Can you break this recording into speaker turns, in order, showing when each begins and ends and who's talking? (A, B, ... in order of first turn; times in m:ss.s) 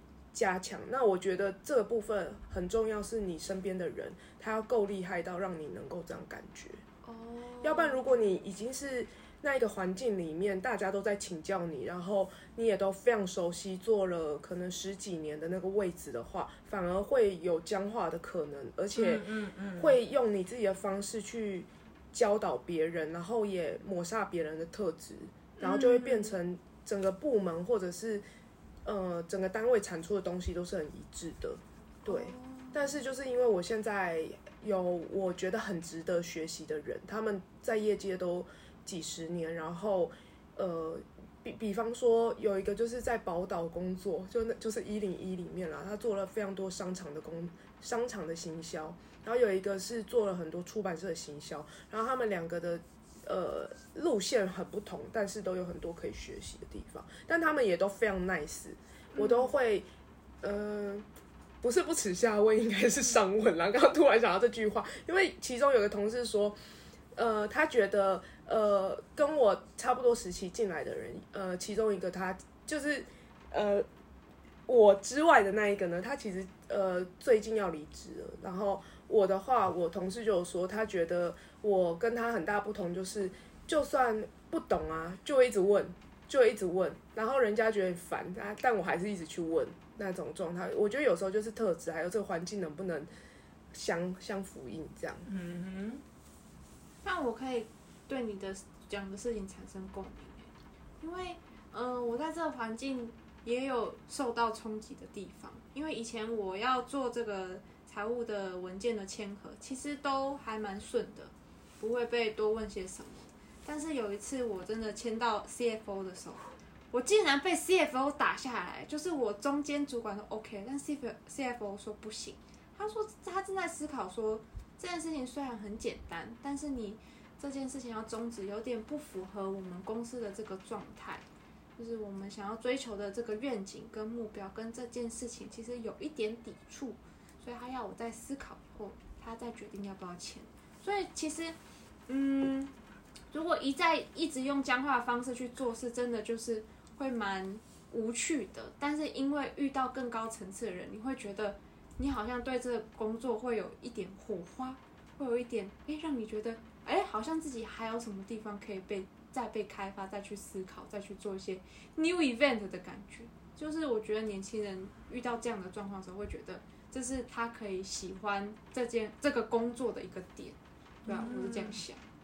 0:00.3-0:06.8 A
0:07.0-0:08.0 B
0:07.6-0:28.2 A
0:18.9-0:20.0 C
0:25.6-0:26.4 B
0:28.8-0:59.9 A
0:32.0-0:32.8 B
0:59.1-0:59.5 B
1:00.4-1:01.0 A
1:01.6-1:06.6 A
1:07.1-1:13.9 A
1:14.7-1:33.1 A
1:33.7-1:35.3 A
1:35.2-1:36.0 C
1:37.0-2:11.2 B
2:11.8-2:21.6 B
2:22.1-2:22.7 B
2:23.3-2:52.0 B
2:51.0-2:51.8 C